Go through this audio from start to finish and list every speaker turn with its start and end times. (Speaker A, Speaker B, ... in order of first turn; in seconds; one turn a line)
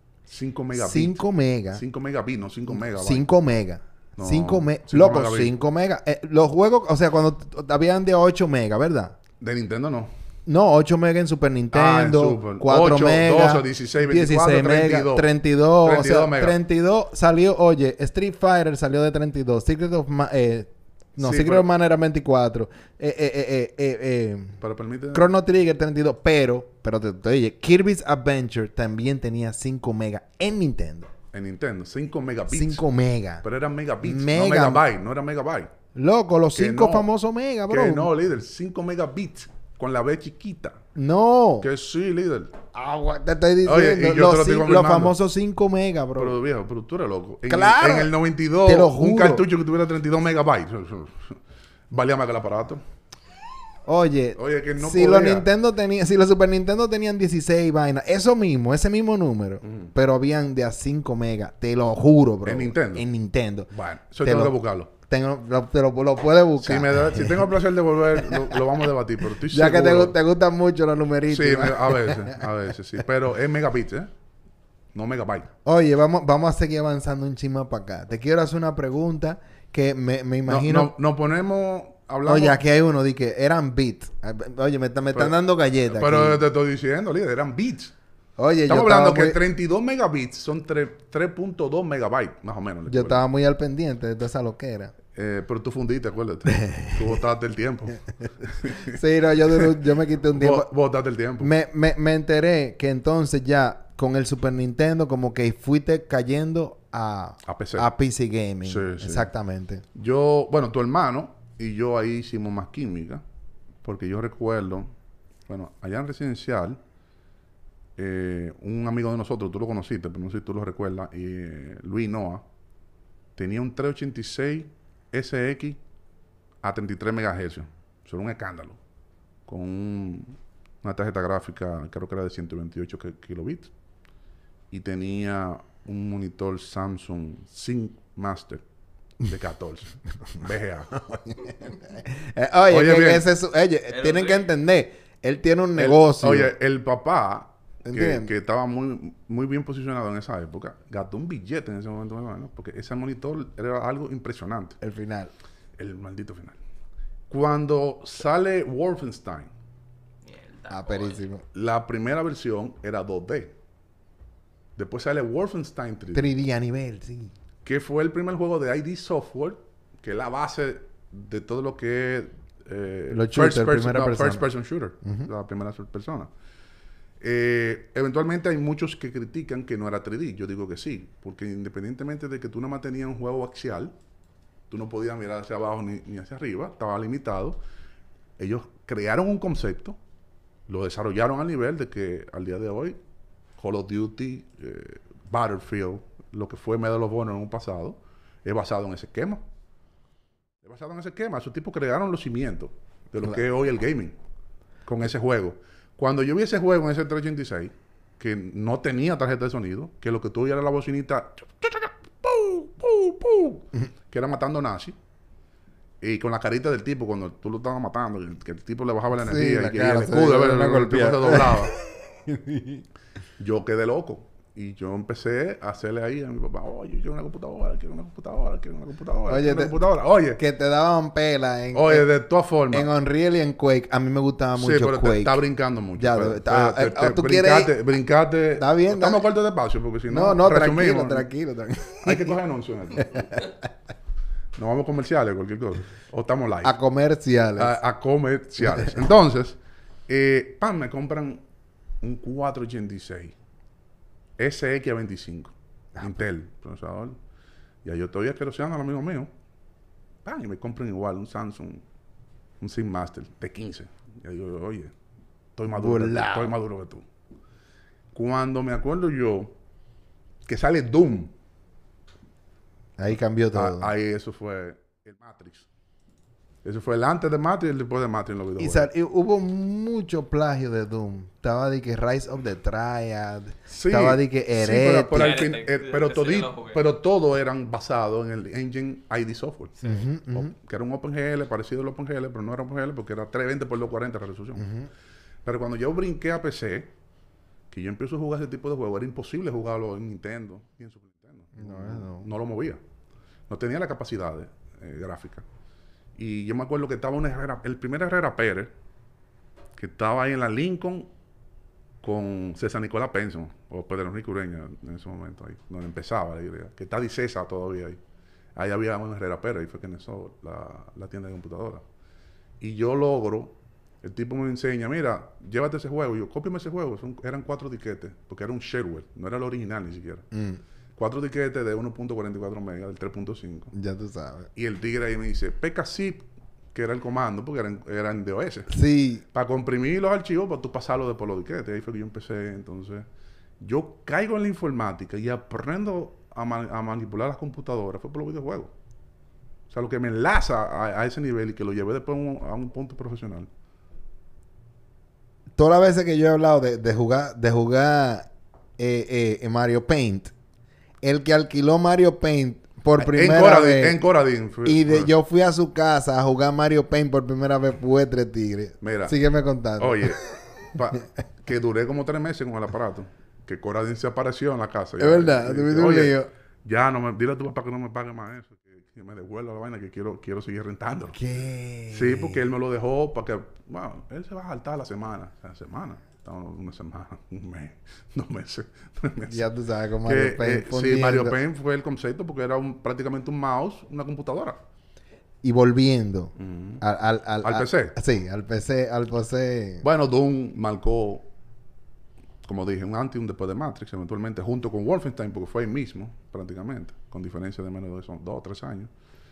Speaker A: 0.3-3.2
Speaker B: 0.7-1.8
Speaker B: 2.7-9.2
Speaker A: 4.2-5.5
Speaker A: 9.4-10.1
Speaker B: 10.4-24.6
Speaker A: 11.7-15.3
Speaker A: 15.8-16.6
Speaker A: 21.2-21.7
Speaker A: 24.6-25.3
Speaker B: 25.1-31.1
Speaker A: 31.3-32.8
Speaker B: 32.5-33.4
Speaker A: 33.4-35.7
Speaker B: 34.0-34.8
Speaker B: 35.9-38.1
Speaker A: 36.5-37.1
Speaker A: 37.7-40.8
Speaker B: 40.9-41.7
Speaker A: 41.6-42.5
Speaker B: 42.7-46.4
Speaker A: 43.6-45.1
Speaker A: 46.1-51.4
Speaker B: 47.5-49.5
Speaker A: 51.9-52.8
Speaker B: 53.9-63.7
Speaker A: 54.4-55.5
Speaker A: 59.6-59.9
Speaker A: 62.4-63.0
Speaker A: 63.7-64.9
Speaker B: 64.2-67.5
Speaker A: 66.6-70.2
Speaker B: 68.2-68.6
Speaker B: 69.5-72.4
Speaker A: 71.3-74.1
Speaker A: 74.9-75.5
Speaker B: 75.6-80.9
Speaker A: 80.5-82.6
Speaker B: 82.2-86.4
Speaker A: 85.9-87.9
Speaker B: 88.4-89.4
Speaker A: 88.7-93.2
Speaker B: 92.9-94.9
Speaker A: 95.1-99.0
Speaker B: 96.5-97.0
Speaker B: 98.7-100.7
Speaker A: 100.3-101.5
Speaker B: 101.4-109.8
Speaker A: 107.4-107.9
Speaker A: 108.6-109.3
Speaker A: 109.9-113.2
Speaker A: 113.8-114.9
Speaker A: 115.5-116.8
Speaker A: 118.0-122.4
Speaker A: 123.3-125.8
Speaker A: 126.6-128.8
Speaker A: 129.5-133.7
Speaker A: 134.7-138.6
Speaker A: 139.2-141.0
Speaker B: 141.2-146.5
Speaker A: 142.7-143.3
Speaker C: 143.9-144.5
Speaker A: 145.8-154.8
Speaker B: 147.8-148.3
Speaker B: 154.8-155.3
Speaker A: 155.8-156.6
Speaker A: 157.3-159.5
Speaker C: 160.2-161.2
Speaker B: 160.7-161.4
Speaker A: 161.5-163.5
Speaker A: 164.8-166.3
Speaker B: 166.1-167.3
Speaker A: 167.6-176.3
Speaker B: 173.1-174.4
Speaker B: 175.0-175.3
Speaker A: 177.2-183.9
Speaker A: 184.7-187.6
Speaker A: 188.4-190.0
Speaker A: 190.7-193.0
Speaker A: 193.6-199.4
Speaker A: 200.6-204.2
Speaker A: 204.8-214.9
Speaker A: 216.0-221.7
Speaker B: 219.2-222.8
Speaker A: 223.4-230.4
Speaker B: 229.3-229.8
Speaker B: 230.3-232.1
Speaker A: 231.7-232.9
Speaker B: 232.7-235.4
Speaker A: 234.6-241.3
Speaker B: 236.0-237.7
Speaker B: 238.6-239.2
Speaker B: 240.1-242.3
Speaker A: 242.0-243.4
Speaker B: 243.0-243.5
Speaker A: 244.6-246.8
Speaker B: 246.6-247.8
Speaker A: 247.6-251.4
Speaker B: 248.6-248.9
Speaker A: 252.0-253.3
Speaker A: 254.4-257.1
Speaker A: 257.8-259.3
Speaker A: 260.2-261.8
Speaker A: 262.6-264.9
Speaker A: 265.6-267.0
Speaker B: 265.7-266.5
Speaker A: 268.1-269.5
Speaker A: 270.4-271.3
Speaker B: 273.0-273.9
Speaker A: 273.5-275.7
Speaker A: 276.6-278.9
Speaker B: 278.6-285.3
Speaker A: 283.7-289.8
Speaker C: 285.1-286.8
Speaker B: 289.8-290.5
Speaker A: 290.3-294.7
Speaker B: 294.6-294.9
Speaker A: 295.4-296.9
Speaker A: 297.7-302.8
Speaker B: 301.6-302.3
Speaker A: 303.5-305.4
Speaker A: 306.1-308.7
Speaker A: 309.8-311.1
Speaker A: 312.0-318.0
Speaker A: 318.5-321.8
Speaker A: 322.6-330.3
Speaker B: 330.3-330.6
Speaker A: 330.9-333.7
Speaker B: 333.7-334.5
Speaker A: 334.5-338.7
Speaker B: 338.7-339.2
Speaker A: 339.3-343.1
Speaker A: 343.6-348.7
Speaker A: 349.7-353.5
Speaker B: 355.6-360.3
Speaker B: 361.0-364.0
Speaker A: 363.0-365.1
Speaker B: 364.6-370.3
Speaker A: 368.8-369.1
Speaker A: 369.8-370.2
Speaker A: 370.7-381.2
Speaker B: 375.0-376.3
Speaker B: 381.1-382.4
Speaker A: 381.9-389.5
Speaker B: 389.3-391.4
Speaker A: 390.0-394.6
Speaker B: 395.4-399.8
Speaker A: 396.4-396.8
Speaker A: 397.4-397.9
Speaker A: 399.8-401.3
Speaker A: 402.4-408.9